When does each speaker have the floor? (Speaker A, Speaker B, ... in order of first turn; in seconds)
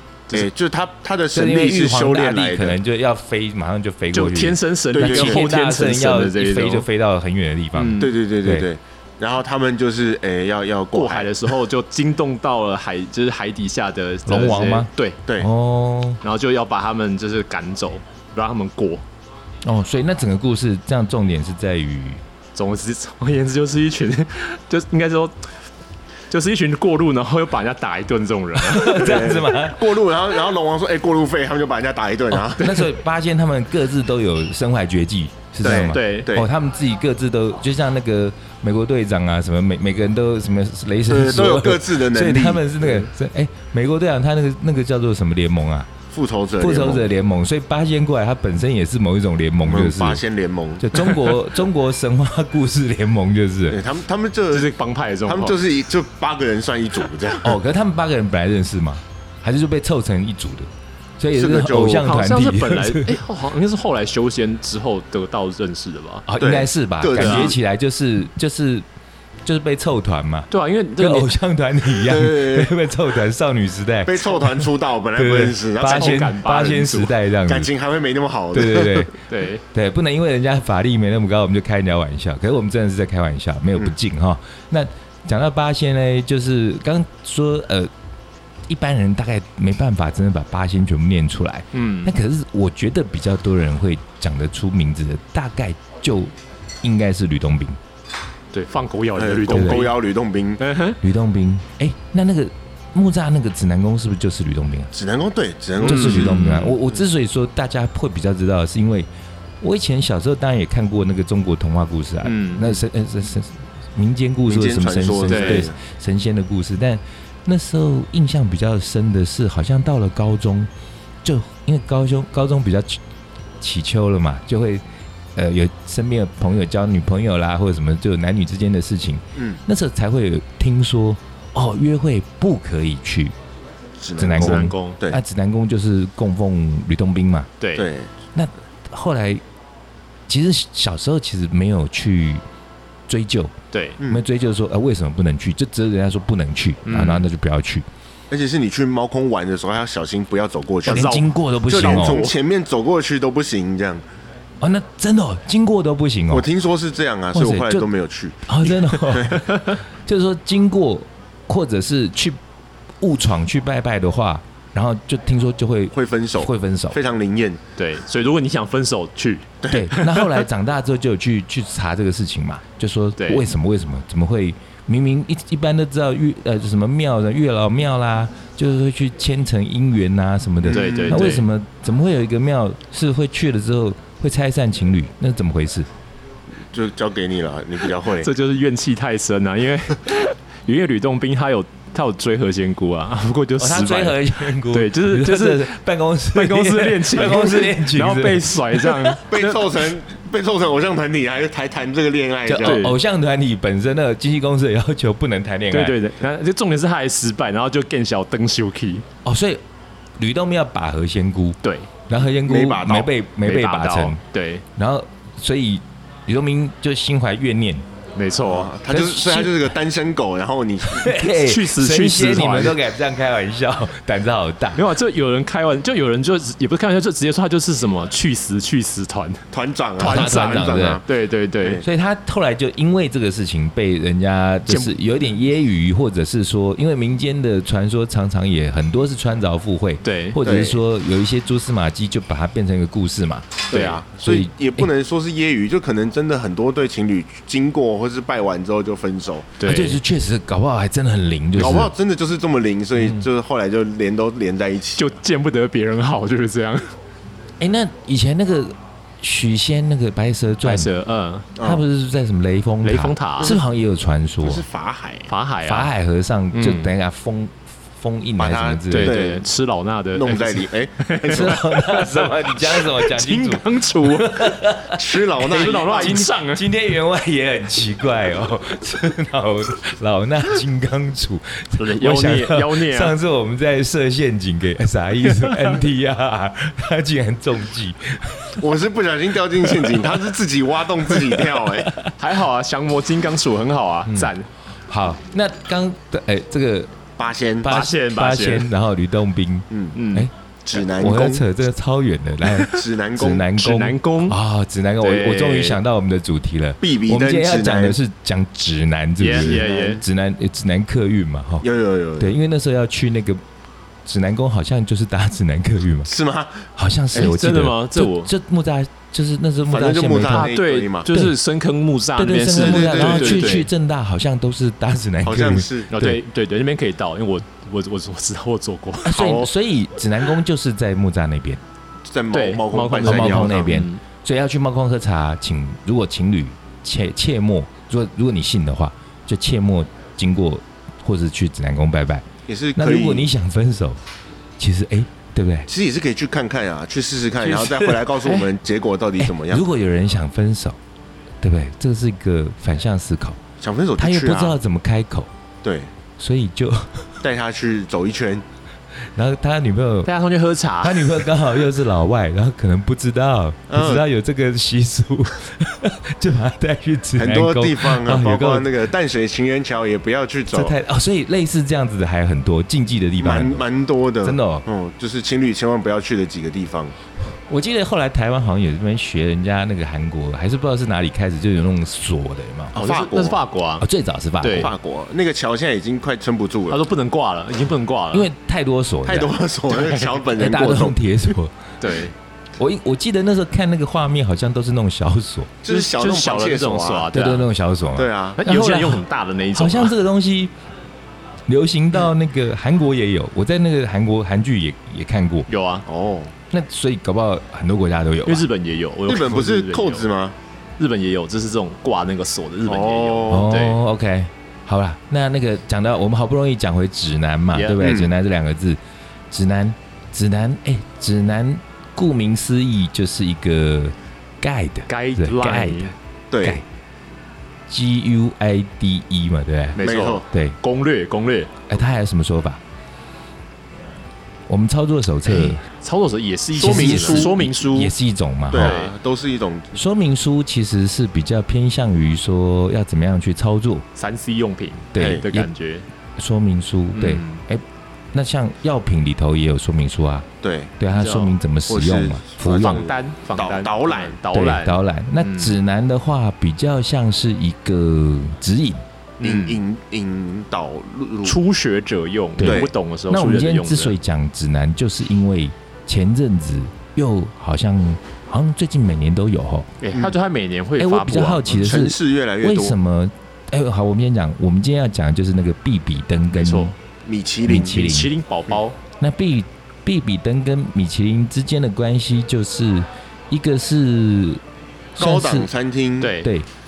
Speaker A: 0.3-2.8, 4.9-5.5, 8.0-11.5, 28.9-32.9, 35.6-36.5, 41.1-43.0, 46.1-47.1, 49.6-51.3, 53.7-54.7, 55.2-57.6, 61.3-62.1, 66.4-67.6, 72.0-72.8, 74.0-76.7, 77.5-79.1, 99.1-100.6, 104.9-106.7, 114.5-115.8, 129.3-129.6, 134.0-135.2, 137.8-138.1, 148.3-154.0, 156.3-158.6, 159.1-159.4, 165.9-167.6, 169.6-169.9, 180.6-181.3, 186.7-188.3, 199.3-202.9, 212.4-213.1, 218.4-221.2, 229.5-231.1, 231.6-231.8, 240.4-240.8, 243.7-249.6, 251.6-255.1, 261.6-261.8, 264.4-265.3, 268.4-269.4, 270.1-271.6, 274.9-276.2, 288.6-291.9, 297.2-297.8, 299.7-300.0, 300.6-301.5, 302.7-303.5, 306.8-308.0, 309.3-310.0, 311.6-312.4, 316.1-316.7, 319.7-321.1, 322.5-323.7, 325.2-325.9, 329.1-329.5, 332.1-333.8, 342.5-343.3, 345.7-349.6, 353.6-354.6, 355.6-355.9, 357.2-358.4, 363.7-364.0, 367.2-370.7, 373.2-376.9, 382.7-383.4, 384.5-386.8, 389.0-391.1, 395.6-397.1, 397.9-398.4, 405.9-406.3, 409.1-410.4, 412.7-413.5, 417.8-418.1, 426.3-426.6, 429.8-430.2, 436.6-437.3, 438.5-439.7, 444.9-445.2, 450.4-450.8, 451.7-454.2, 459.2-461.4, 462.4-462.7, 471.5-472.8, 477.0-477.9, 485.0-486.1
Speaker B: 1.3-8.7, 14.2-16.2, 19.6-22.2, 28.6-29.9, 32.3-45.9, 46.6-50.2, 50.8-53.8, 57.4-63.2, 66.3-68.8, 69.4-77.7, 78.5-79.1, 79.7-87.9, 88.7-97.8, 99.5-99.9, 101.0-104.9, 105.8-109.1, 109.6-120.7, 121.2-123.0, 123.6-124.8, 125.3-133.3, 134.2-137.5, 138.3-139.4, 140.3-142.4, 143.1-147.8, 150.8-152.3, 154.6-156.5, 157.3-157.9, 158.5-162.4, 163.0-167.0, 169.7-185.9, 193.6-199.2, 202.4-206.0, 209.2-209.6, 210.2-214.2, 214.7-217.9, 218.9-219.7, 220.8-224.8, 230.0-231.0, 231.8-243.7, 244.2-244.9, 249.6-251.9, 257.6-260.9, 261.6-264.6, 265.6-269.2, 271.3-288.6, 289.6-290.2, 291.1-292.1, 294.1-294.3, 294.9-297.0, 297.6-300.3, 300.9-311.6, 312.2-313.4, 314.0-316.1, 316.8-320.5, 321.1-321.4, 322.1-326.2, 329.0-331.6, 333.0-344.0, 344.6-345.7, 347.4-348.4, 349.2-350.8, 351.4-353.4, 354.0-355.3, 356.2-357.2, 359.1-360.1, 360.8-368.8, 370.5-373.6, 374.2-374.6, 377.5-382.7, 383.8-384.7, 388.1-389.4, 390.3-391.6, 392.6-395.5, 397.1-400.5, 401.5-405.5, 406.5-408.5, 413.3-418.8, 419.3-425.9, 427.7-430.6, 431.7-432.6, 434.5-435.6, 436.6-438.8, 439.7-443.8, 444.9-445.5, 446.2-450.3, 450.8-452.8, 454.3-458.8, 462.4-469.7, 470.8-476.7, 477.4-478.1, 479.0-484.4, 485.0-485.5, 486.2-486.5
Speaker C: 4.1-6.9, 7.7-8.1, 10.9-15.2, 16.2-19.0, 22.5-25.5, 26.3-29.3, 35.7-36.3, 54.5-55.6, 62.0-66.3, 67.2-67.5, 70.5-71.3, 75.8-77.1, 79.3-79.6, 91.7-92.1, 98.5-100.0, 100.6-101.0, 105.8-106.8, 112.2-112.8, 115.3-115.7, 134.3-135.0, 137.6-137.9, 143.7-144.0, 146.8-147.2, 150.8-152.3, 159.5-159.8, 167.8-170.3, 173.2-173.4, 180.7-181.4, 188.0-195.7, 196.3-199.7, 202.6-202.9, 205.7-209.0, 211.6-211.9, 213.4-214.6, 218.2-218.7, 221.3-222.8, 224.7-229.4, 230.0-231.8, 234.7-234.9, 240.0-240.4, 243.7-244.0, 249.6-250.0, 255.0-256.9, 260.6-261.5, 262.8-263.6, 265.3-265.9, 266.5-266.9, 268.9-274.4, 275.4-276.6, 281.8-283.1, 292.2-294.5, 297.6-298.7, 299.9-300.3, 303.5-304.4, 305.0-305.8, 309.2-310.0, 317.1-318.3, 320.3-323.7, 325.9-329.3, 332.3-334.0, 360.0-361.3, 382.7-383.9, 384.4-384.7, 386.7-388.3, 389.7-390.1, 391.8-392.1, 395.7-397.5, 398.4-399.9, 405.5-405.8, 408.2-410.1, 410.8-413.8, 417.5-417.8, 424.9-425.9, 429.8-431.5, 435.3-437.9, 438.5-438.9, 443.9-445.8, 446.9-447.4, 450.9-451.3, 452.5-455.6, 459.2-459.6, 461.2-464.0, 469.8-471.7, 476.3-476.7, 477.7-478.8, 486.0-486.3